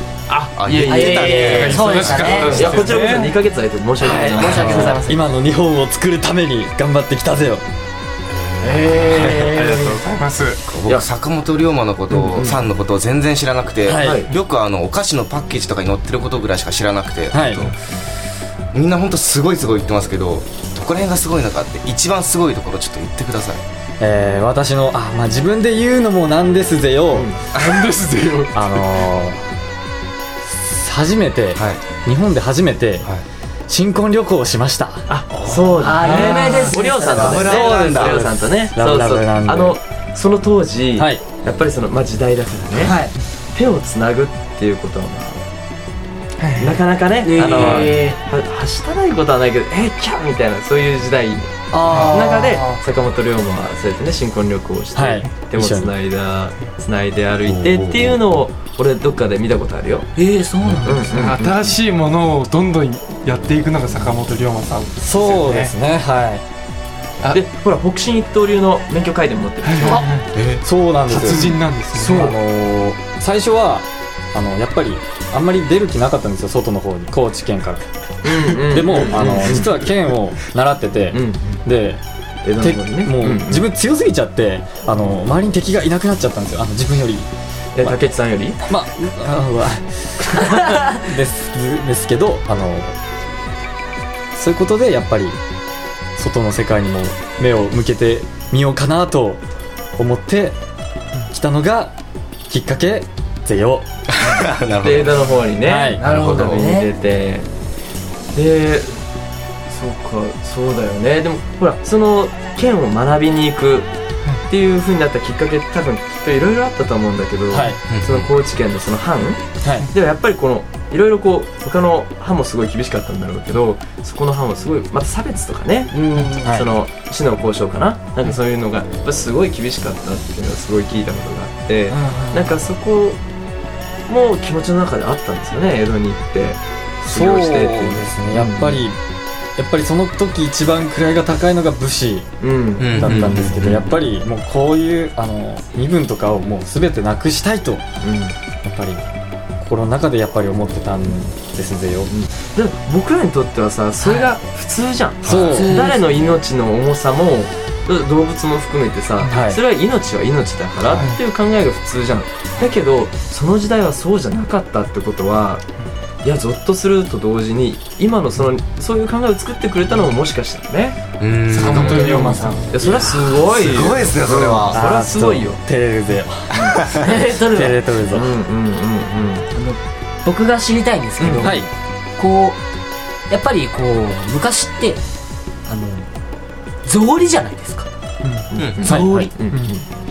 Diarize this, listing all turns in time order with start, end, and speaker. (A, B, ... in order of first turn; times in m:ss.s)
0:00.3-0:05.3 A
0:00.6-0:02.4 B
0:00.8-0:02.8 C
0:01.7-0:03.4 D
0:04.0-0:05.0 C
0:04.1-0:07.6 E
0:08.3-0:09.6 B
0:08.6-0:09.5 A
0:09.0-0:10.0 C
0:09.5-0:10.6 D
0:10.7-0:17.8 B
0:12.1-0:12.6 A
0:13.8-0:14.2 E
0:13.9-0:14.3 A
0:17.3-0:17.7 E
0:18.7-0:23.6 B
0:24.0-0:27.3 E
0:27.1-0:27.4 A
0:27.5-0:28.6 D
0:28.5-0:29.5 E
0:30.5-0:33.1 E
0:31.6-0:31.8 B
0:33.7-0:35.1 E
0:35.1-0:43.0 A
0:35.3-0:36.0 B
0:35.8-0:37.7 C
0:36.0-0:36.6 D
0:37.1-0:38.2 B
0:37.8-0:39.8 E
0:41.0-0:41.2 E
0:42.8-0:43.1 C
0:43.5-0:45.4 A
0:46.4-0:46.7 D
0:46.6-0:51.5 A
0:47.2-0:48.2 C
0:51.7-0:52.8 C
0:52.1-1:00.1 A
0:54.9-0:55.9 E
0:57.4-0:58.2 B
1:00.2-1:01.5 C
1:00.8-1:01.4 A
1:01.2-1:05.7 D
1:05.0-1:06.4 E
1:07.3-1:10.1 A
1:09.6-1:10.3 D
1:10.3-1:10.6 B
1:10.6-1:17.8 E
1:11.1-1:12.2 D
1:12.0-1:12.3 C
1:18.2-1:19.7 A
1:18.4-1:22.0 E
1:21.1-1:21.6 A
1:22.4-1:23.6 A
1:22.6-1:27.3 E
1:27.7-1:28.6 A
1:28.6-1:33.0 E
1:34.3-1:35.4 E
1:36.2-1:39.4 E
1:40.0-1:40.6 E
1:41.3-1:41.9 E
1:42.5-1:43.9 E
1:44.1-1:45.3 B
1:44.2-1:47.5 A
1:45.6-1:46.0 E
1:46.0-1:46.9 C
1:46.0-1:46.6 B
1:48.3-1:49.0 A
1:49.7-1:53.9 A
1:54.5-2:13.2 A
1:57.5-1:57.8 E
1:57.9-1:58.3 B
1:59.6-1:59.9 E
2:05.9-2:06.4 C
2:11.9-2:12.6 C
2:14.1-2:18.8 A
2:17.0-2:19.0 E
2:19.6-2:27.8 E
2:22.4-2:23.8 A
2:22.8-2:23.8 B
2:28.0-2:28.4 A
2:28.6-2:29.0 E
2:29.6-2:32.1 E
2:32.1-2:45.6 A
2:34.0-2:34.3 C
2:35.2-2:35.5 B
2:35.2-2:35.8 E
2:35.4-2:36.3 C
2:39.3-2:39.6 E
2:46.2-2:51.0 A
2:51.2-2:52.2 B
2:51.5-2:52.6 C
2:51.7-2:52.6 D
2:52.7-2:55.6 A
2:52.8-2:54.8 B
2:54.7-2:58.3 E
2:56.5-2:56.8 A
2:56.9-2:58.0 C
2:58.1-2:59.5 A
2:59.5-3:01.6 C
3:01.2-3:01.6 A
3:01.4-3:01.7 E
3:02.2-3:02.6 C
3:03.3-3:05.0 C
3:05.6-3:06.1 C
3:06.8-3:07.9 C
3:08.2-3:08.5 D
3:08.5-3:09.8 A
3:08.6-3:08.8 B
3:08.8-3:09.3 C
3:08.8-3:09.3 E